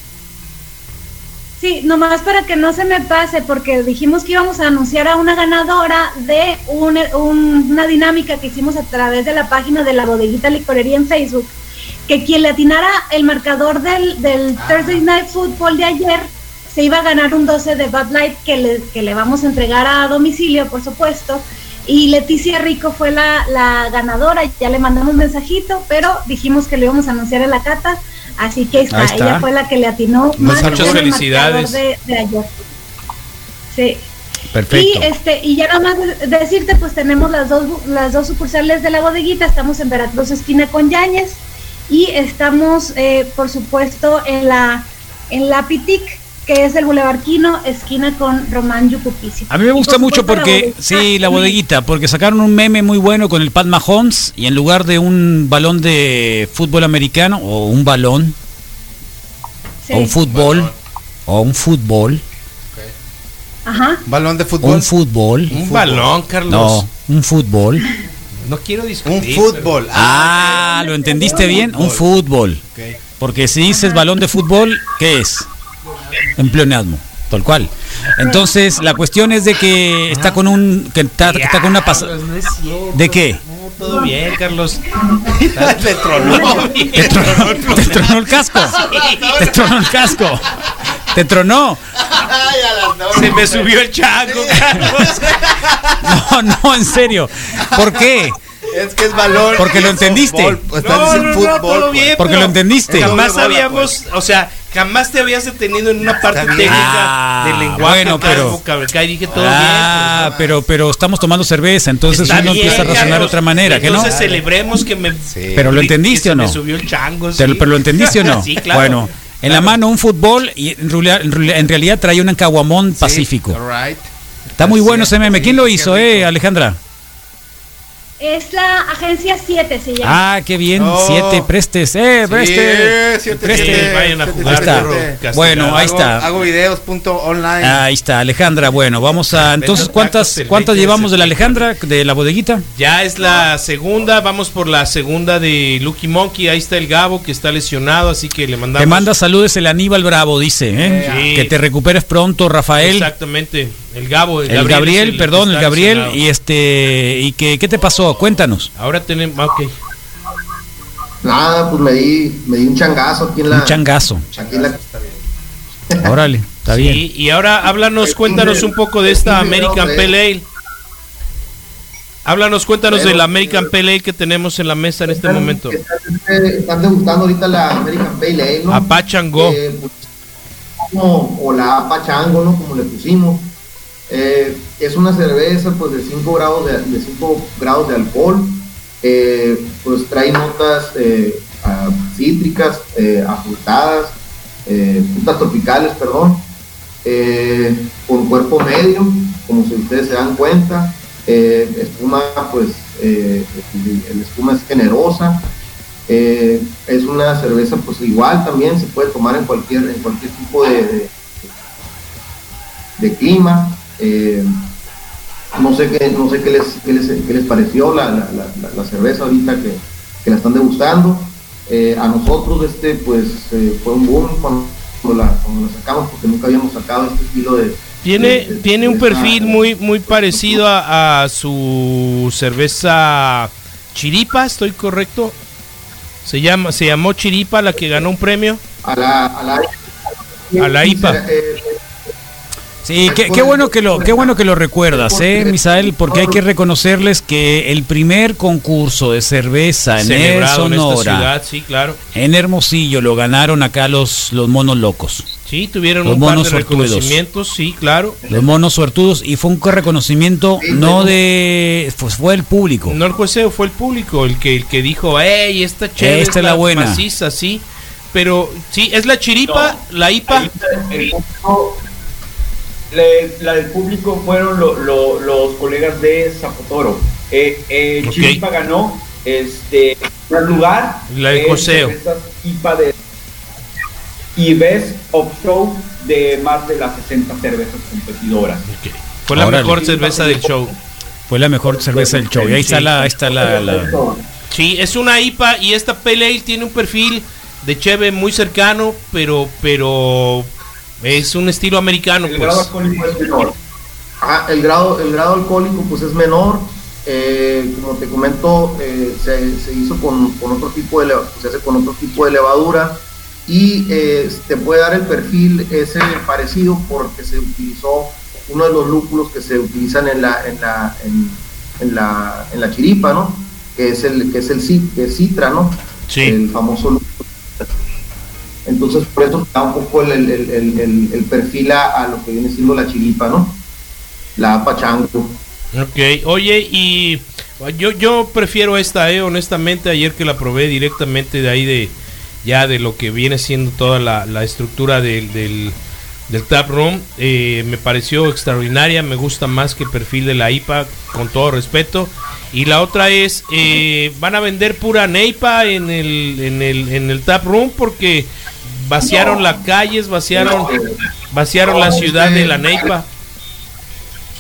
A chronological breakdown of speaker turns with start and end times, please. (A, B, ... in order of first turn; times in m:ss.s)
0:01.6-0:11.6 A
0:12.1-0:32.5 A
0:14.6-0:15.0 B
0:28.9-0:29.5 C
0:30.4-0:31.1 B
0:30.5-0:31.8 D
0:33.7-0:34.1 A
0:34.5-0:35.1 C
0:34.7-0:51.6 A
0:49.5-0:58.4 C
0:59.8-1:00.2 A
0:59.9-1:00.7 C
1:00.2-1:00.8 B
1:01.3-1:02.2 C
1:03.7-1:04.0 A
1:04.1-1:04.9 B
1:04.6-1:05.6 C
1:05.5-1:06.8 D
1:05.5-1:06.1 B
1:06.5-1:07.9 C
1:08.4-1:09.9 D
1:09.0-1:12.0 B
1:09.9-1:12.6 C
1:10.4-1:11.7 A
1:12.6-1:13.0 B
1:13.2-1:15.5 C
1:13.7-1:14.0 A
1:16.4-1:22.2 C
1:20.1-1:20.4 B
1:21.3-1:22.1 D
1:21.3-1:24.0 B
1:22.9-1:23.4 C
1:23.8-1:28.1 D
1:25.3-1:30.7 B
1:26.9-1:28.8 C
1:28.7-1:29.3 D
1:29.4-1:30.4 C
1:31.1-1:31.8 C
1:32.0-1:36.3 B
1:33.1-1:35.6 D
1:36.0-1:38.4 C
1:37.6-1:44.0 B
1:39.6-1:40.6 C
1:39.7-1:50.3 D
1:42.2-1:43.2 C
1:46.1-1:47.0 B
1:46.7-1:48.6 C
1:47.9-1:48.5 B
1:49.3-1:50.6 B
1:49.3-1:54.2 C
1:52.1-1:59.7 D
1:52.1-1:54.5 B
1:55.3-1:55.8 B
1:55.6-1:56.6 C
1:57.4-2:03.6 C
2:02.9-2:06.3 B
2:04.6-2:06.8 C
2:08.2-2:10.3 A
2:10.0-2:16.3 C
2:10.7-2:11.5 B
2:12.2-2:17.9 B
2:13.4-2:16.2 D
2:17.6-2:22.7 C
2:19.6-2:21.7 D
2:19.6-2:19.9 B
2:22.7-2:29.1 D
2:28.8-2:33.1 C
2:30.8-2:31.3 B
2:31.0-2:31.6 D
2:32.8-2:36.2 D
2:34.5-2:38.7 C
2:38.8-2:39.8 D
2:41.2-2:43.8 E
2:43.5-2:44.2 C
2:44.2-2:45.2 B
2:44.4-2:44.8 E
2:46.0-2:47.0 C
2:46.7-2:50.5 D
2:48.0-2:50.2 E
2:52.2-2:55.8 D
2:52.9-2:53.7 E
2:55.1-3:00.1 E
2:58.7-2:59.6 D
3:00.9-3:03.6 E
3:04.1-3:16.5 E
3:17.0-3:25.5 E
3:26.1-3:31.2 E
3:33.0-3:34.7 E
3:35.6-3:50.6 E
3:48.0-3:55.4 D
3:56.2-3:58.6 D
3:58.8-4:01.8 E
4:00.6-4:01.2 D
4:02.8-4:11.3 C
4:03.0-4:06.4 E
4:10.0-4:12.0 D
4:12.2-4:15.3 C
4:15.5-4:18.2 D
4:16.0-4:17.2 C
4:18.3-4:23.0 C
4:20.6-4:21.2 E
4:22.8-4:30.5 D
4:26.0-4:27.0 C
4:29.5-4:31.8 F
4:32.9-4:42.9 F
4:38.0-4:38.4 D
4:41.1-4:42.0 D
4:44.4-4:48.7 F
4:48.7-4:50.8 D
4:49.4-4:49.8 C
4:49.6-4:50.7 F
4:51.3-4:54.0 C
4:51.6-4:54.2 F
4:54.5-5:02.7 D
5:02.2-5:03.6 F
5:04.2-5:27.6 E
5:26.1-5:26.4 D
5:28.6-5:33.6 E
5:34.4-5:35.4 E
5:35.7-5:45.8 D
5:46.3-6:00.7 D
5:59.1-5:59.4 E
6:00.4-6:00.7 E
6:01.3-6:03.1 D
6:01.6-6:02.9 E